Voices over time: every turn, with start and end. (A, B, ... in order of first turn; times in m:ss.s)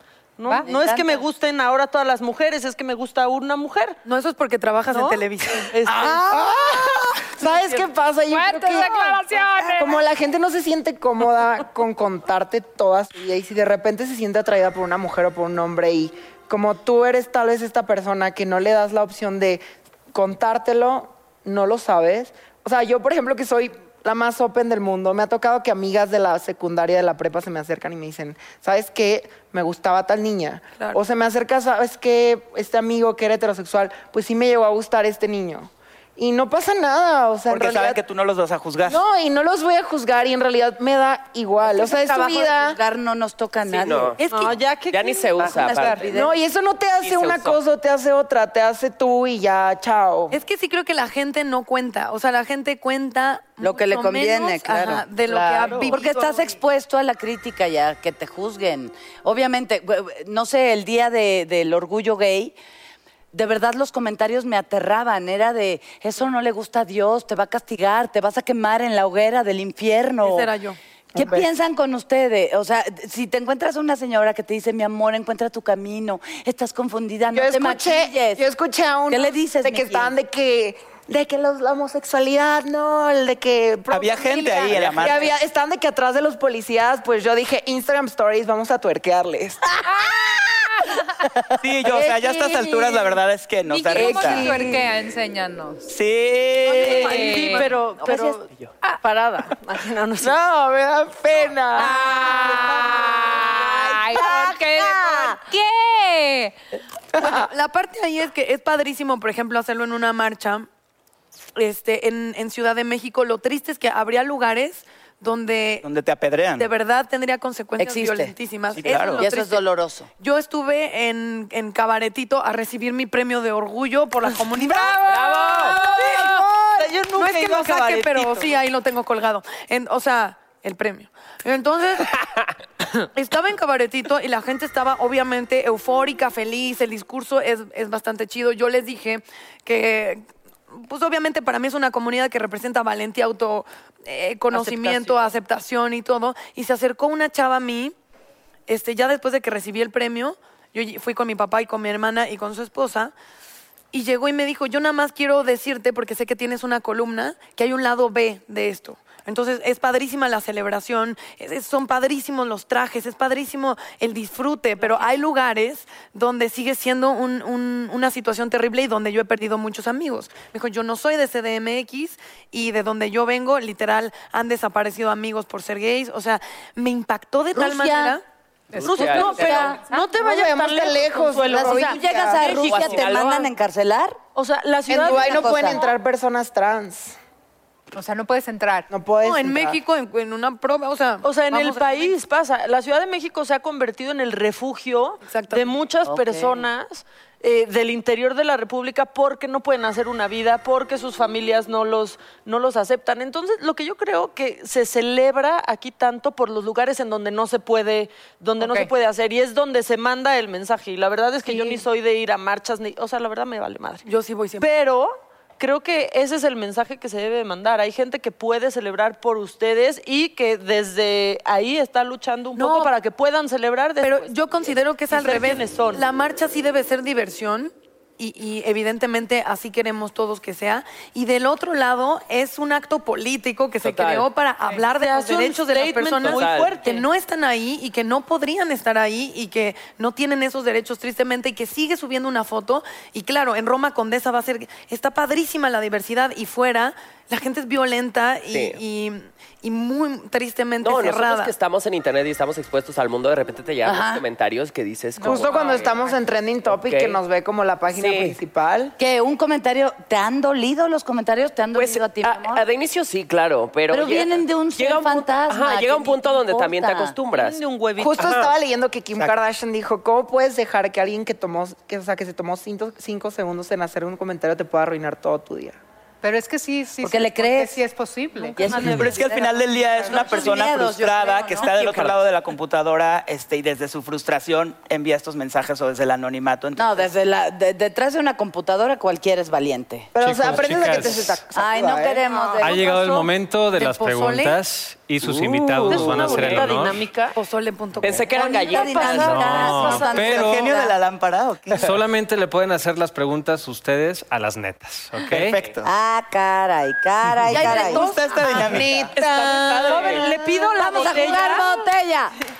0:00.4-0:04.0 A
0:00.6-0:01.2 B
0:04.0-0:05.7 C
0:04.9-0:06.4 A
0:05.9-0:38.0 D
0:07.5-0:07.8 A
0:08.3-0:10.0 E
0:37.5-0:39.0 F
0:38.8-0:42.8 D
0:41.6-0:44.2 B
0:43.7-0:44.2 G
0:44.2-0:44.6 C
0:44.2-0:45.5 A
0:44.9-0:46.1 G
0:45.4-0:46.3 B
0:46.1-0:50.4 D
0:47.0-0:47.6 G
0:50.3-0:56.5 C
0:53.6-1:02.5 B
0:55.4-0:56.0 A
1:03.3-1:10.5 B
1:10.2-1:10.8 C
1:11.1-1:11.5 D
1:11.2-1:18.4 B
1:17.3-1:29.7 D
1:19.1-1:20.1 B
1:23.9-1:25.3 F
1:24.7-1:25.1 G
1:29.9-1:30.1 E
1:30.7-1:31.1 E
1:31.6-1:34.5 F
1:33.7-1:35.8 E
1:35.9-1:37.5 F
1:36.6-1:38.5 A
1:37.0-1:37.7 E
1:38.0-1:38.3 B
1:39.0-1:40.4 A
1:40.2-1:44.2 D
1:41.8-1:46.5 E
1:42.3-1:42.6 A
1:44.1-1:44.8 B
1:47.1-1:47.4 D
1:47.2-1:50.7 C
1:51.5-1:55.8 C
1:55.8-1:56.7 F
1:56.6-1:59.6 C
1:57.8-1:58.3 B
1:58.7-1:59.2 F
1:58.8-2:00.1 B
2:00.2-2:06.3 C
2:05.1-2:05.8 G
2:05.6-2:08.5 A
2:07.1-2:12.2 C
2:13.1-2:27.9 C
2:24.6-2:25.2 A
2:28.7-2:33.1 C
2:33.9-2:58.2 C
2:57.5-2:58.2 B
2:58.8-2:59.5 G
2:58.8-3:03.1 A
2:59.0-2:59.8 B
2:59.4-3:00.0 E
3:00.1-3:02.7 D
3:01.4-3:04.2 B
3:02.4-3:03.5 G
3:04.3-3:05.8 A
3:04.9-3:07.2 D
3:05.0-3:05.9 B
3:07.9-3:08.9 E
3:08.9-3:09.8 D
3:09.2-3:12.1 C
3:11.2-3:34.0 A
3:15.2-3:15.7 C
3:16.0-3:16.6 B
3:28.6-3:28.9 E
3:31.4-3:31.8 C
3:34.0-3:34.7 C
3:34.6-3:46.0 A
3:42.6-3:42.9 C
3:44.0-4:11.5 C
3:53.8-3:54.3 G
3:55.0-3:57.0 A
3:56.2-3:56.8 G
4:08.5-4:08.8 G
4:10.8-4:15.9 G
4:13.8-4:14.2 B
4:15.2-4:16.1 E
4:15.2-4:18.9 D
4:16.7-4:17.2 G
4:17.9-4:18.4 G
4:19.0-4:22.6 B
4:21.7-4:27.6 G
4:23.9-4:27.2 B
4:27.3-4:28.4 A
4:28.0-4:35.8 D
4:28.2-4:28.5 G
4:36.2-4:38.6 E
4:37.0-4:37.8 B
4:38.6-4:42.2 B
4:38.6-4:39.2 A
4:38.7-4:47.1 F
4:46.8-4:50.1 B
4:50.1-4:52.3 D
4:50.2-4:51.4 H
4:51.5-4:53.0 B
4:52.6-4:57.0 H
4:52.9-4:54.6 C
4:55.2-4:56.7 G
4:55.8-4:57.4 A
4:57.4-4:58.3 C
4:58.0-5:00.0 G
4:58.3-5:01.0 B
4:58.5-5:00.2 A
4:59.1-5:00.7 H
5:00.1-5:02.0 F
5:01.8-5:05.6 H
5:05.2-5:05.9 F
5:05.8-5:08.3 B
5:07.5-5:09.1 F
5:07.5-5:11.8 A
5:07.6-5:08.0 D
5:08.5-5:11.3 D
5:09.2-5:10.2 G
5:10.0-5:12.3 B